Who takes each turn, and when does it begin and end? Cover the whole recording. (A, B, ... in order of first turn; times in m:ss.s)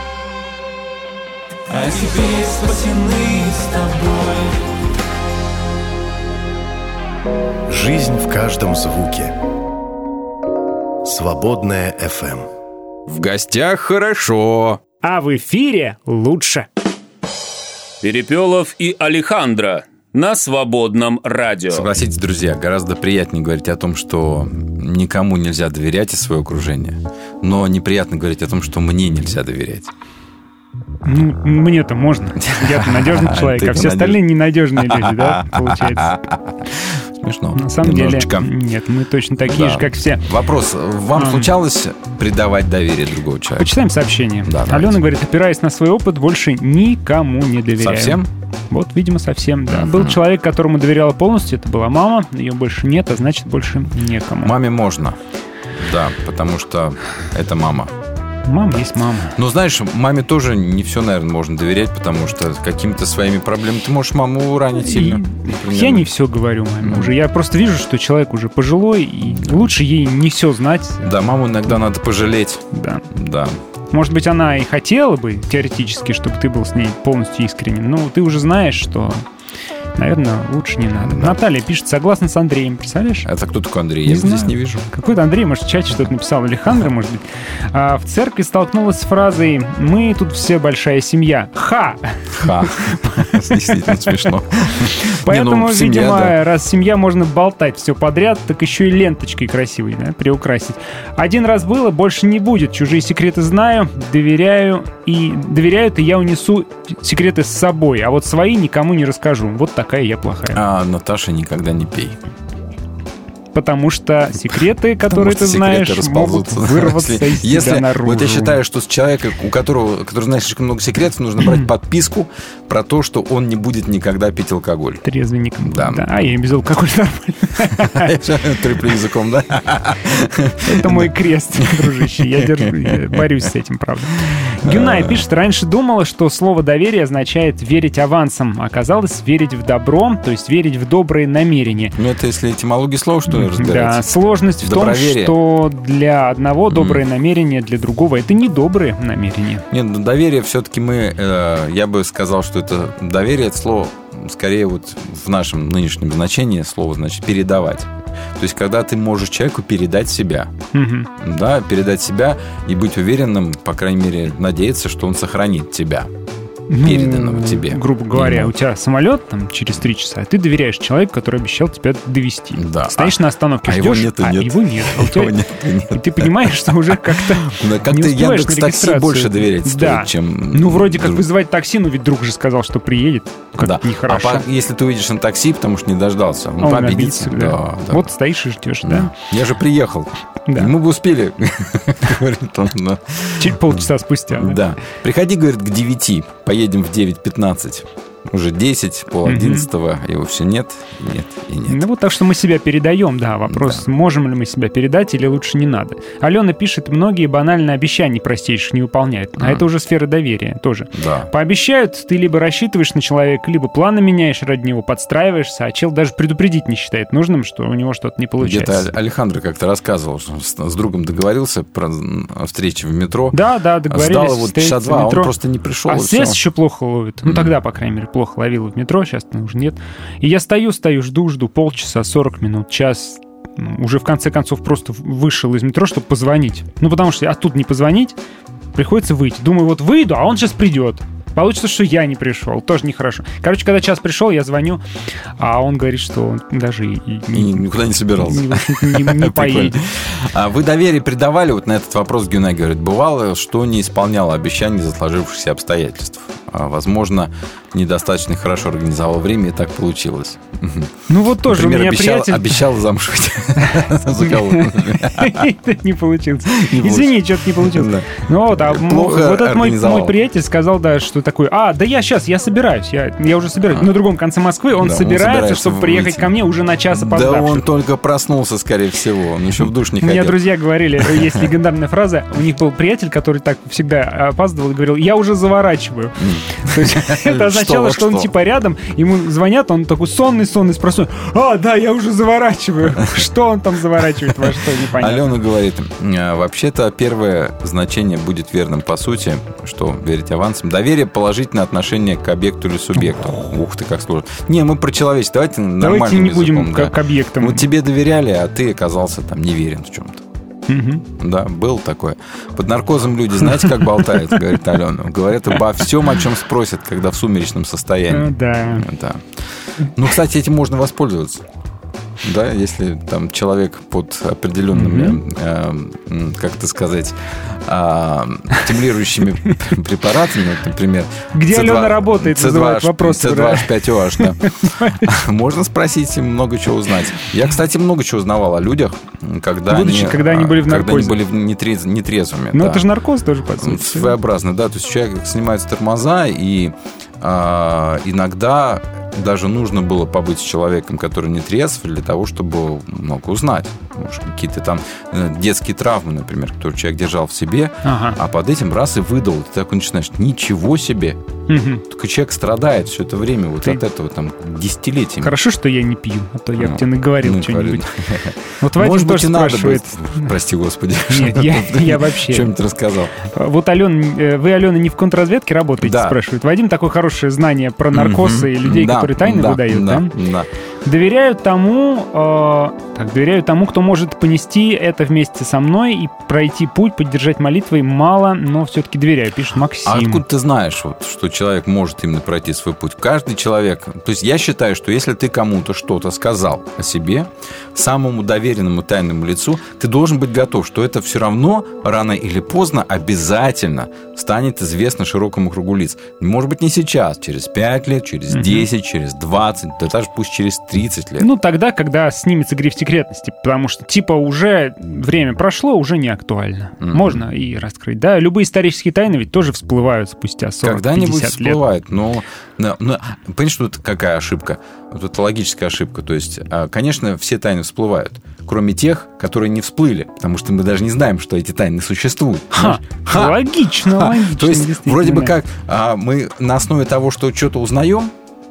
0:01.7-0:04.6 A
0:07.7-0:09.3 B
0:11.0-0:12.5 B
0:13.1-0:14.8 C
0:15.0-0:16.7 D
0:18.0-0:21.9 E
0:21.7-0:29.9 C
0:31.0-0:36.1 D
0:32.4-0:34.2 C
0:34.8-0:38.5 C
0:37.6-0:40.2 D
0:39.5-0:43.8 C
0:41.2-0:41.5 D
0:43.6-0:54.5 D
0:44.4-0:45.0 C
0:47.8-0:48.3 C
0:49.7-0:50.2 C
0:54.4-0:55.2 C
0:55.8-0:57.9 C
0:58.5-0:59.4 D
0:59.4-1:06.1 C
1:04.8-1:11.1 D
1:06.8-1:07.1 C
1:09.4-1:09.7 C
1:11.0-1:13.6 C
1:12.7-1:13.0 D
1:13.9-1:19.2 D
1:20.0-1:23.3 D
1:21.0-1:21.4 C
1:23.2-1:24.9 C
1:24.0-1:32.6 D
1:32.3-1:36.4 C
1:33.7-1:34.1 D
1:35.1-1:50.6 D
1:50.5-1:52.2 C
1:53.5-1:58.6 D
1:55.1-2:05.0 C
2:01.4-2:01.7 D
2:05.0-2:08.1 D
2:05.6-2:06.1 C
2:07.7-2:13.5 C
2:10.6-2:22.0 D
2:14.6-2:15.2 C
2:22.0-2:24.1 C
2:23.3-2:29.7 D
2:24.6-2:25.4 C
2:26.7-2:27.0 C
2:29.7-2:40.5 C
2:40.7-2:41.1 D
2:41.2-2:46.1 C
2:46.7-2:55.4 D
2:46.8-2:48.5 C
2:52.6-3:01.3 C
2:55.9-3:04.4 D
3:03.6-3:08.1 C
3:06.6-3:09.1 D
3:08.8-3:21.9 C
3:10.5-3:10.7 D
3:13.4-3:14.6 D
3:19.3-3:19.7 D
3:21.7-3:38.9 D
3:23.5-3:23.8 C
3:29.4-3:29.7 C
3:31.0-3:31.3 C
3:38.4-3:46.4 C
3:43.3-3:45.3 D
3:45.9-3:58.2 D
3:47.2-3:47.5 C
3:58.8-4:04.8 D
4:05.4-4:09.8 D
4:07.3-4:25.5 C
4:21.1-4:22.6 D
4:23.6-4:37.6 D
4:26.5-4:30.2 C
4:34.8-4:36.3 C
4:36.9-4:40.4 C
4:40.0-4:55.4 D
4:41.0-4:41.4 C
4:46.2-4:48.3 C
4:53.0-4:53.3 C
4:54.4-5:10.2 C
5:03.0-5:03.6 D
5:05.8-5:07.6 D
5:10.7-5:11.0 D
5:11.2-5:21.4 C
5:13.6-5:14.2 D
5:18.1-5:18.9 D
5:22.2-5:42.9 C
5:24.7-5:25.2 D
5:31.3-5:35.1 D
5:39.7-5:41.2 D
5:42.5-5:44.2 D
5:43.6-6:01.2 C
5:57.8-5:58.2 D
6:01.5-6:01.8 D
6:01.9-6:05.4 C
6:05.2-6:07.8 D
6:06.6-6:13.2 C
6:08.6-6:10.3 D
6:11.1-6:12.5 D
6:13.3-6:20.1 D
6:15.8-6:16.2 C
6:17.9-6:20.5 C
6:20.8-6:30.2 D
6:29.8-6:51.3 C
6:48.3-6:48.7 D
6:51.2-7:01.6 D
6:56.8-6:57.2 C
7:00.6-7:18.1 C
7:12.5-7:15.4 D